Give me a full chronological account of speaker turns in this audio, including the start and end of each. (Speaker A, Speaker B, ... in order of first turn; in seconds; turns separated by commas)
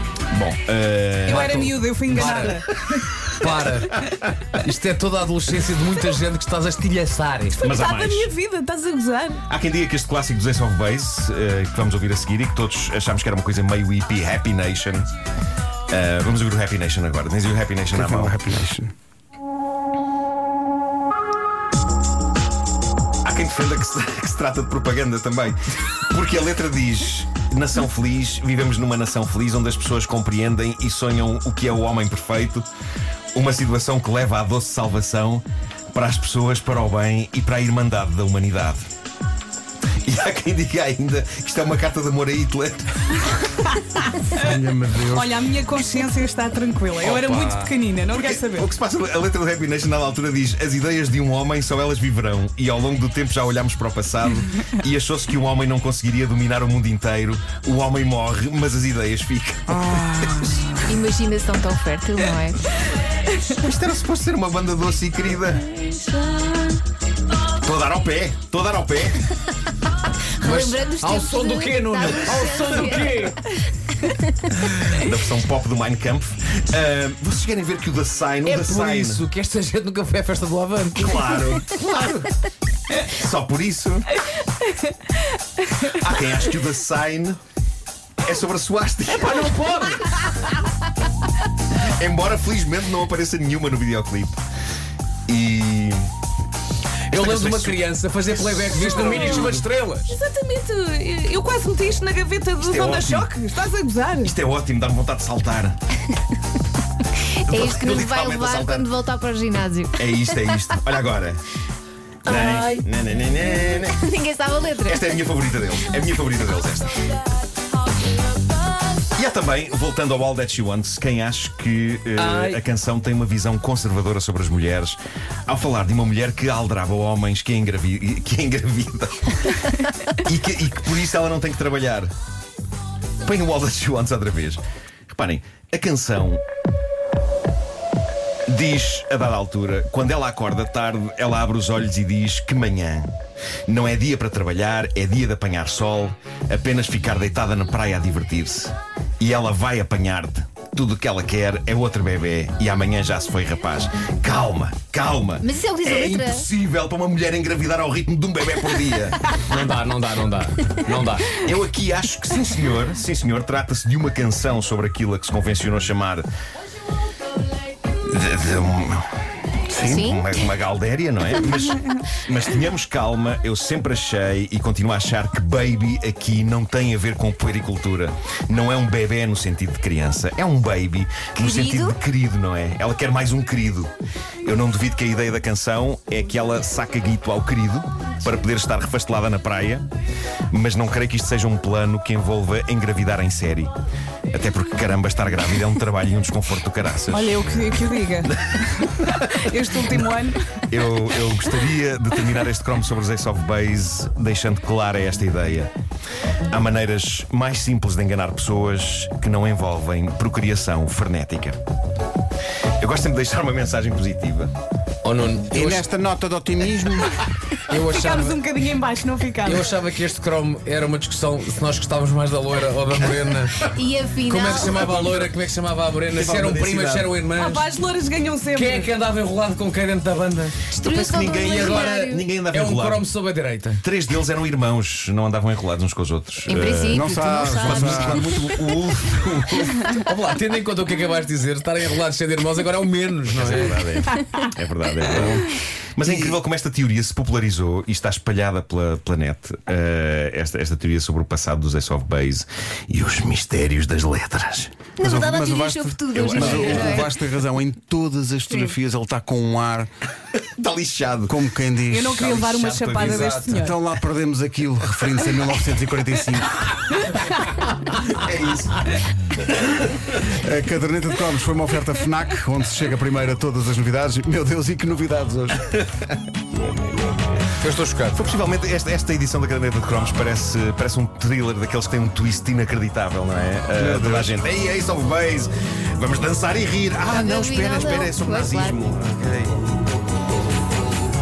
Speaker A: 0.3-1.7, Speaker B: 1.3-3.2, Speaker C: 1.3-2.6, Speaker C: 3.3-7.6, Speaker B: 7.5-9.4, Speaker A: 7.6-8.3, Speaker A: 9.5-15.1, Speaker A: 15.9-18.4, Speaker D: 17.9-18.9, Speaker A: 23.2-25.6, Speaker A: 26.1-32.7, Speaker A: 33.3-38.8, Speaker A: 40.0-43.4, Speaker B: 43.8-44.0, Speaker D: 44.3-45.3, Speaker B: 45.1-48.7, Speaker A: 47.2-47.4, Speaker A: 48.1-60.6, Speaker D: 59.7-60.9, Speaker E: 60.9-62.6, Speaker A: 63.5-65.7, Speaker E: 65.9-66.6, Speaker A: 67.6-69.3, Speaker E: 70.4-73.3, Speaker C: 70.4-73.4, Speaker E: 74.0-74.5, Speaker C: 74.6-75.0, Speaker A: 74.9-79.2, Speaker C: 78.5-81.4, Speaker A: 81.0-82.4, Speaker A: 83.0-84.1, Speaker A: 85.9-87.4, Speaker A: 88.2-89.5, Speaker C: 89.2-90.2, Speaker A: 91.7-94.4, Speaker A: 95.3-96.1, Speaker C: 97.1-100.1, Speaker A: 97.1-97.8, Speaker A: 98.5-99.5, Speaker B: 98.8-104.3, Speaker A: 102.6-103.3, Speaker A: 104.2-105.8, Speaker E: 107.3-110.3, Speaker A: 107.5-108.9, Speaker A: 110.0-111.4, Speaker A: 112.2-114.0, Speaker E: 112.3-112.6, Speaker C: 112.3-112.8, Speaker E: 113.7-115.1, Speaker A: 114.9-116.9, Speaker A: 119.1-132.1, Speaker C: 122.2-122.6, Speaker A: 133.2-136.4, Speaker A: 138.5-143.1, Speaker A: 143.7-159.2, Speaker E: 155.4-156.5, Speaker C: 159.5-161.4, Speaker A: 161.3-166.3, Speaker A: 168.1-169.1, Speaker D: 169.7-170.1, Speaker A: 169.8-183.9, Speaker E: 169.8-170.3, Speaker E: 181.4-182.0, Speaker A: 184.4-189.9, Speaker A: 190.5-193.7, Speaker A: 194.3-198.8, Speaker B: 197.1-200.6, Speaker A: 200.7-205.7, Speaker A: 206.5-211.6, Speaker A: 212.8-214.5, Speaker C: 215.0-215.8, Speaker D: 215.5-217.2, Speaker C: 217.7-218.4, Speaker B: 217.8-219.7, Speaker C: 219.5-223.7, Speaker E: 223.7-225.3, Speaker C: 224.3-227.6, Speaker A: 226.2-227.1, Speaker B: 227.3-228.9, Speaker C: 228.6-233.8, Speaker E: 230.7-232.3, Speaker A: 230.9-233.1, Speaker A: 233.8-239.8, Speaker E: 236.5-238.7, Speaker D: 236.9-238.5, Speaker C: 239.9-244.1, Speaker A: 243.3-254.7, Speaker D: 245.2-245.4, Speaker D: 246.0-246.3, Speaker E: 255.0-257.1, Speaker D: 255.0-259.9, Speaker A: 256.1-257.1, Speaker A: 260.6-261.4, Speaker D: 261.3-262.3, Speaker B: 261.9-263.8, Speaker A: 262.1-263.6, Speaker D: 263.5-266.7, Speaker A: 267.9-269.0, Speaker D: 270.3-275.7, Speaker C: 277.6-278.2, Speaker A: 278.1-289.6, Speaker D: 283.8-284.4, Speaker E: 287.1-288.8